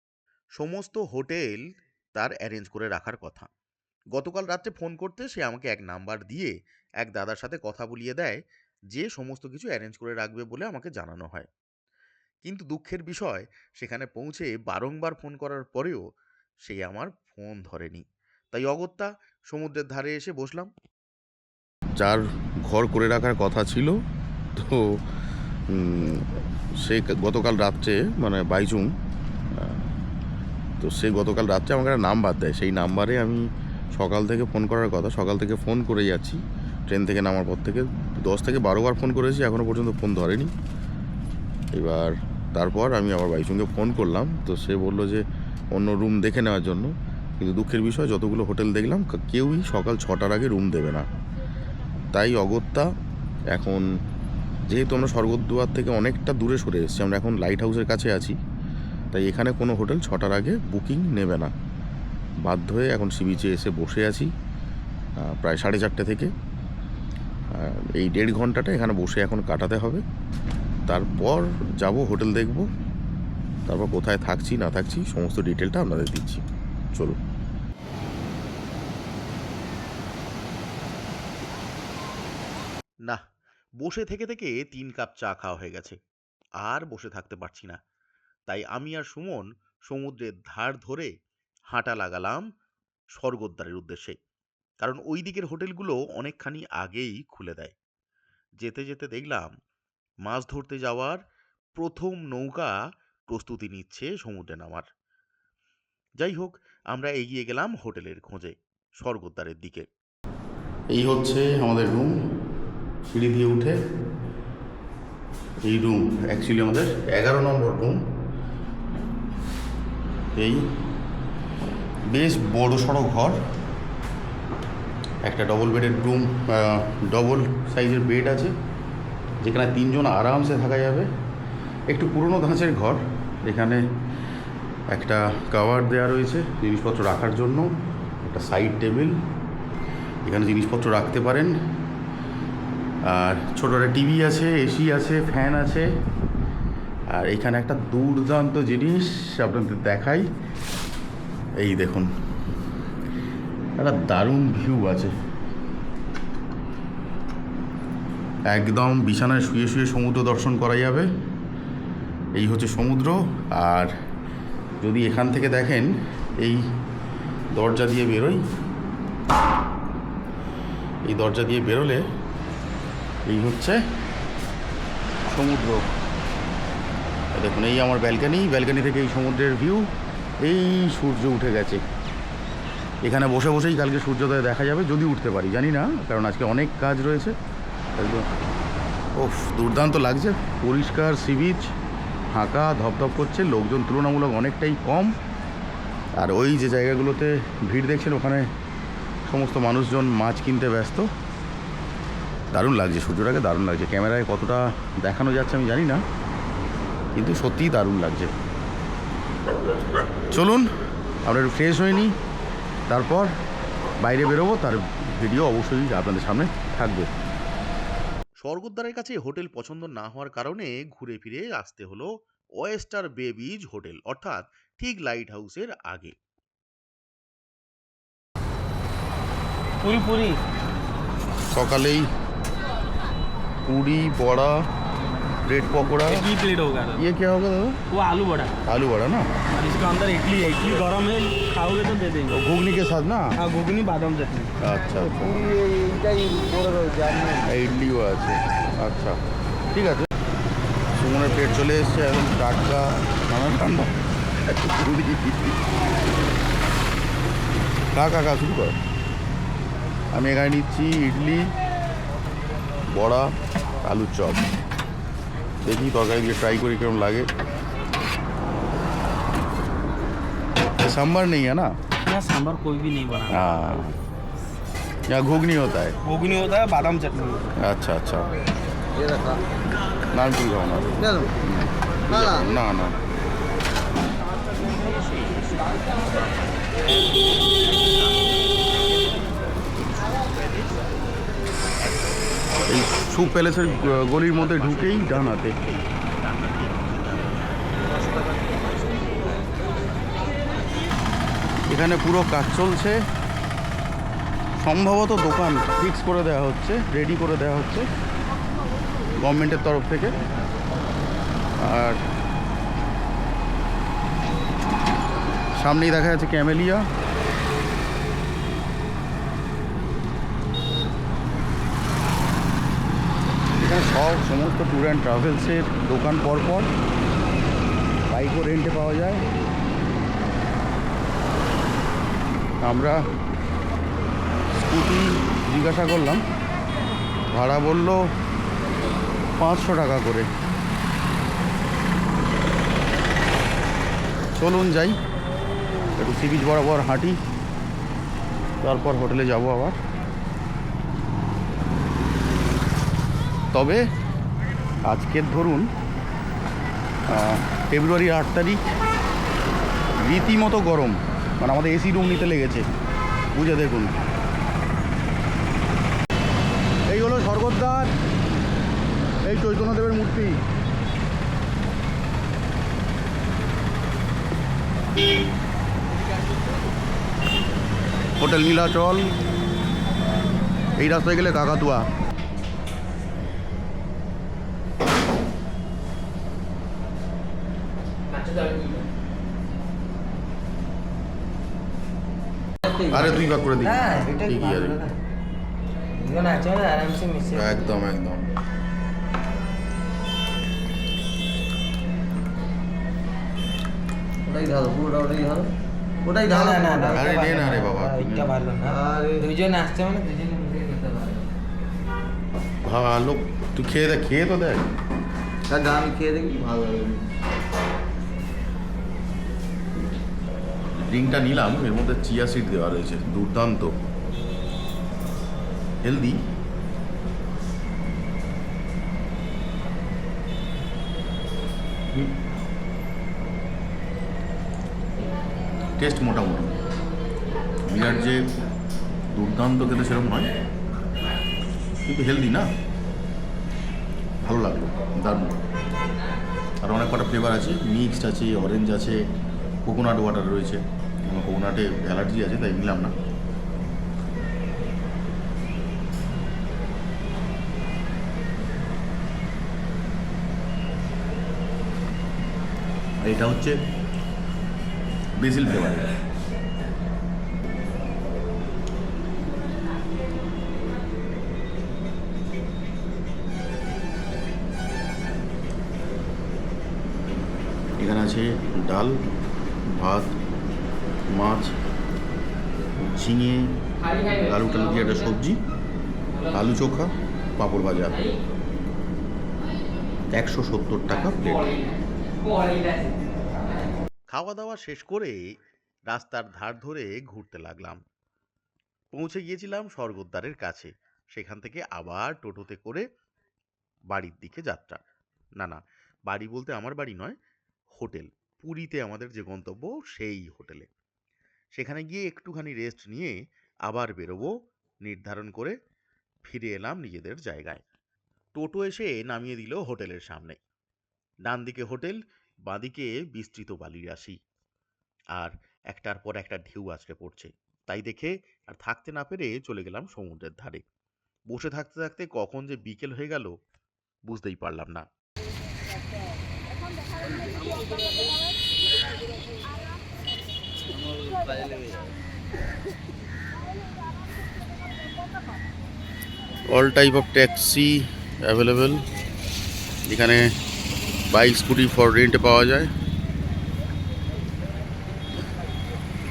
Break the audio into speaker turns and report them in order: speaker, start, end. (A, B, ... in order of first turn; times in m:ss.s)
0:00.6-0:03.5 A
0:04.1-0:08.4 A
0:08.9-0:11.5 A
0:12.4-0:16.0 A
0:16.6-0:20.7 A
0:22.0-0:23.9 B
0:24.5-0:24.8 B
0:25.7-0:26.2 B
0:26.8-0:28.9 B
0:29.5-0:29.8 B
0:30.8-0:33.4 B
0:33.9-0:40.5 B
0:41.7-0:51.1 B
0:52.1-0:52.9 B
0:53.5-0:53.8 B
0:54.7-0:58.4 B
0:59.1-1:01.5 B
1:02.4-1:04.3 B
1:05.2-1:06.3 B
1:07.5-1:10.0 B
1:10.9-1:12.6 B
1:13.7-1:16.4 B
1:23.8-1:26.0 A
1:26.6-1:27.8 A
1:28.5-1:31.1 A
1:31.7-1:32.4 A
1:33.1-1:34.2 A
1:34.8-1:37.7 A
1:38.6-1:39.5 A
1:40.2-1:41.2 A
1:41.7-1:42.7 A
1:43.3-1:44.9 A
1:46.2-1:49.9 A
1:50.9-1:52.1 B
1:53.1-1:53.8 B
1:55.6-1:58.0 B
2:00.4-2:00.6 B
2:02.1-2:03.4 B
2:05.2-2:08.5 B
2:09.4-2:11.1 B
2:11.9-2:13.8 B
2:14.9-2:17.7 B
2:18.2-2:19.1 B
2:20.2-2:21.5 B
2:23.0-2:25.9 B
2:27.1-2:30.2 B
2:31.6-2:32.1 B
2:33.8-2:35.1 B
2:38.5-2:41.1 B
2:42.3-2:43.9 B
2:44.8-2:46.6 B
2:47.5-2:48.4 B
2:51.0-2:52.0 B
2:53.2-2:53.8 B
2:55.3-2:55.9 B
2:57.3-2:59.9 B
3:00.4-3:01.8 B
3:03.0-3:07.3 B
3:08.0-3:08.3 B
3:09.2-3:11.7 B
3:12.3-3:15.1 B
3:16.2-3:18.4 B
3:19.3-3:21.1 B
3:22.5-3:26.0 B
3:27.2-3:28.3 B
3:30.3-3:30.6 B
3:31.2-3:32.1 B
3:32.9-3:33.3 B
3:34.0-3:37.1 B
3:38.4-3:46.1 A
3:49.8-3:50.4 C
3:51.5-3:52.0 B
3:53.6-3:54.6 B
3:55.4-3:56.3 B
3:56.0-3:57.0 C
3:57.0-3:57.8 B
3:57.9-3:58.5 C
3:58.6-3:59.3 B
3:59.5-4:02.4 C
4:02.3-4:03.3 B
4:03.3-4:04.5 C
4:04.6-4:05.3 B
4:04.9-4:07.5 D
4:07.4-4:09.2 B
4:09.7-4:10.1 B
4:10.9-4:15.6 B
4:17.9-4:18.8 B
4:20.1-4:21.5 B
4:22.9-4:23.3 B
4:23.8-4:24.5 B
4:25.6-4:27.3 B
4:30.8-4:31.7 B
4:32.0-4:33.5 C
4:33.3-4:33.9 B
4:35.1-4:36.0 B
4:36.0-4:37.4 C
4:37.6-4:38.3 B
4:38.9-4:39.4 D
4:40.1-4:43.0 B
4:41.0-4:41.3 D
4:42.1-4:42.4 D
4:44.5-4:48.5 A
4:49.7-4:50.8 A
4:52.7-4:55.5 B
4:53.0-4:59.5 A
5:01.7-5:03.0 B
5:04.6-5:07.9 B
5:09.2-5:10.1 B
5:11.6-5:12.0 B
5:15.6-5:16.8 B
5:23.6-5:26.7 B
5:28.1-5:29.2 B
5:32.6-5:33.0 B
5:34.6-5:36.2 B
5:37.3-5:38.0 B
5:39.4-5:40.3 B
5:44.4-5:45.0 B
5:46.0-5:47.2 B
5:48.6-5:49.8 B
5:53.5-5:53.8 B
5:54.8-5:55.6 B
5:57.1-5:58.6 B
6:00.0-6:02.6 B
6:03.3-6:03.9 B
6:06.9-6:07.9 B
6:09.2-6:10.4 B
6:18.2-6:19.1 B
6:20.8-6:21.9 B
6:28.1-6:28.8 E
6:32.7-6:34.9 E
6:32.9-6:34.8 B
6:36.0-6:37.7 E
6:37.3-6:38.2 B
6:44.2-6:45.5 D
6:46.0-6:47.1 D
6:46.3-6:51.3 E
6:46.4-6:48.3 B
6:48.7-6:49.2 D
6:52.6-6:54.6 B
6:55.5-6:57.0 D
7:00.8-7:03.7 B
7:05.8-7:06.2 B
7:15.8-7:16.5 B
7:17.7-7:18.3 B
7:19.1-7:20.3 B
7:21.9-7:22.5 B
7:24.2-7:25.4 B
7:26.6-7:29.0 B
7:29.6-7:32.9 B
7:43.0-7:43.6 B
7:45.2-7:45.9 B
7:57.8-7:58.9 B
7:59.7-8:00.1 B
8:01.1-8:01.5 B
8:02.8-8:03.4 B
8:03.8-8:05.1 E
8:04.2-8:05.4 B
8:06.1-8:06.4 E
8:06.3-8:08.0 B
8:10.2-8:11.4 B
8:10.9-8:13.0 E
8:14.1-8:15.2 A
8:15.9-8:17.8 A
8:18.9-8:22.8 A
8:23.9-8:24.8 A
8:25.4-8:27.2 A
8:27.8-8:30.7 A
8:31.6-8:33.1 A
8:33.6-8:34.3 A
8:34.8-8:35.6 A
8:36.2-8:37.6 A
8:38.3-8:40.4 A
8:41.2-8:44.2 A
8:45.1-8:50.6 A
8:51.3-8:53.3 A
8:54.0-8:54.8 A
8:57.0-8:57.6 D
9:00.6-9:01.9 D
9:06.5-9:08.8 B
9:09.9-9:10.2 B
9:11.1-9:12.7 B